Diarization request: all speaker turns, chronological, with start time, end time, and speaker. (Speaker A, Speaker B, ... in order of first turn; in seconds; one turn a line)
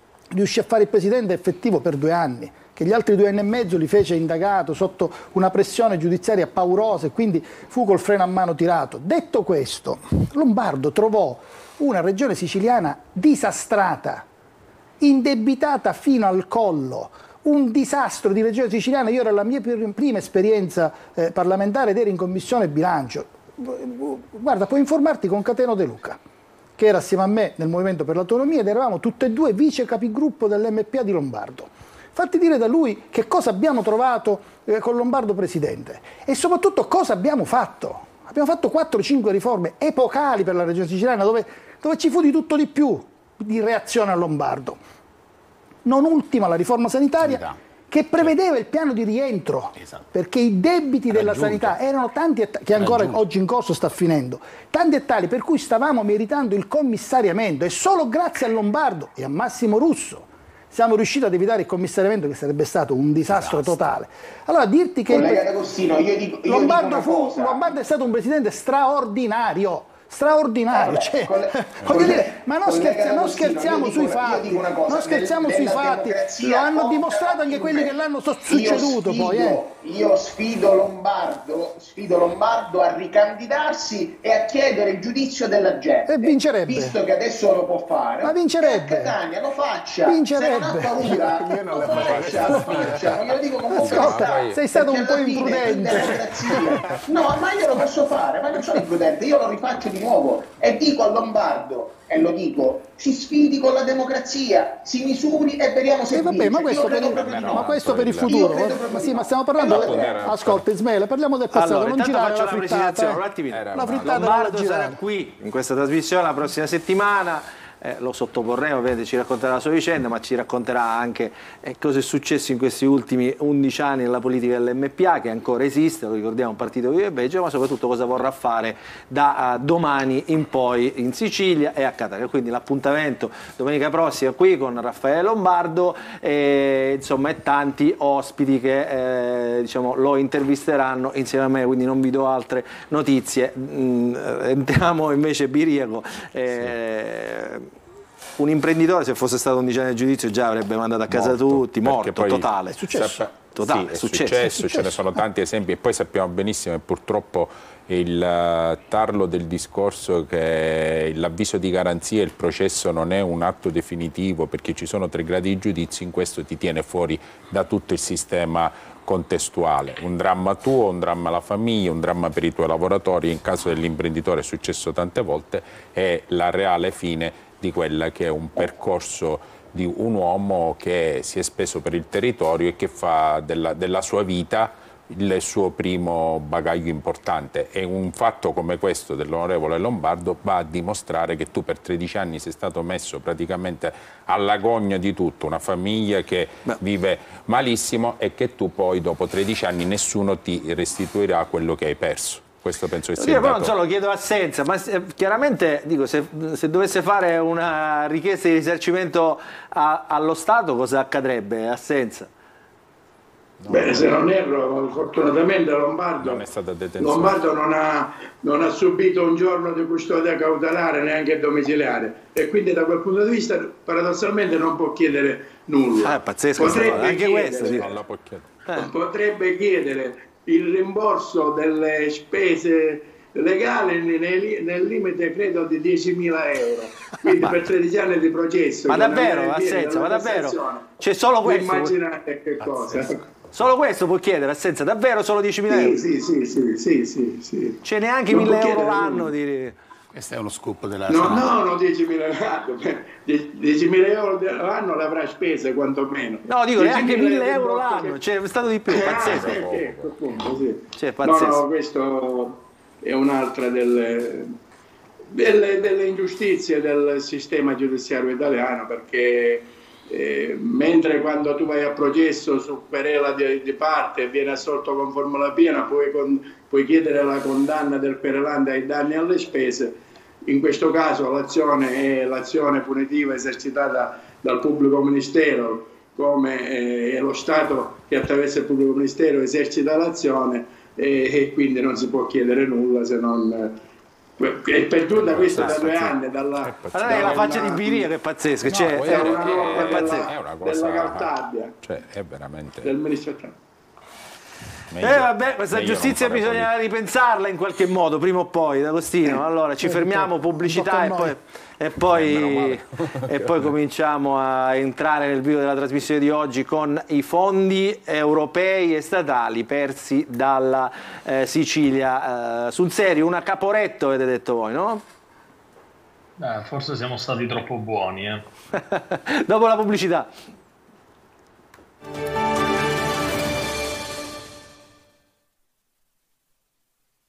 Speaker A: 0.3-14.2
Speaker A: 15.0-26.2
Speaker A: 26.8-44.8
Speaker A: 45.8-65.5
Speaker B: 47.2-47.5
Speaker B: 51.1-51.7
Speaker B: 52.7-53.2
Speaker B: 63.3-63.8
Speaker C: 65.1-67.8
Speaker A: 66.4-79.6
Speaker C: 70.7-110.3
Speaker A: 86.1-87.0
Speaker A: 88.2-89.2
Speaker A: 90.0-93.2
Speaker D: 91.8-94.6
Speaker A: 93.7-97.0
Speaker A: 106.1-115.0
Speaker D: 106.8-108.7
Speaker D: 109.6-110.6
Speaker E: 111.5-147.7
Speaker D: 113.5-114.3
Speaker E: 148.4-152.8
Speaker D: 151.1-203.8
Speaker A: 152.7-153.2
Speaker E: 153.5-154.6
Speaker A: 154.4-155.2
Speaker E: 203.2-212.3
Speaker D: 213.6-214.2
Speaker F: 213.7-216.4
Speaker D: 216.2-217.4
Speaker F: 217.0-227.9
Speaker E: 226.0-227.9
Speaker D: 226.6-228.6
Speaker F: 228.7-240.9
Speaker E: 238.9-241.9
Speaker F: 241.4-243.2
Speaker B: 242.6-243.1
Speaker E: 243.5-246.0
Speaker F: 245.7-249.3
Speaker E: 247.8-249.8
Speaker B: 250.1-251.5
Speaker F: 251.1-258.2
Speaker E: 256.4-259.6
Speaker F: 258.9-264.5
Speaker D: 259.0-260.6
Speaker E: 260.9-261.6
Speaker F: 265.3-293.8
Speaker F: 294.4-298.1
Speaker D: 295.1-297.6
Speaker E: 296.9-300.3
Speaker D: 298.6-302.9
Speaker F: 299.0-301.8
Speaker F: 302.8-303.6
Speaker D: 304.9-306.7
Speaker E: 305.0-325.0
Speaker A: 309.8-311.4
Speaker D: 312.1-313.8
Speaker G: 326.4-328.4
Speaker E: 328.7-330.3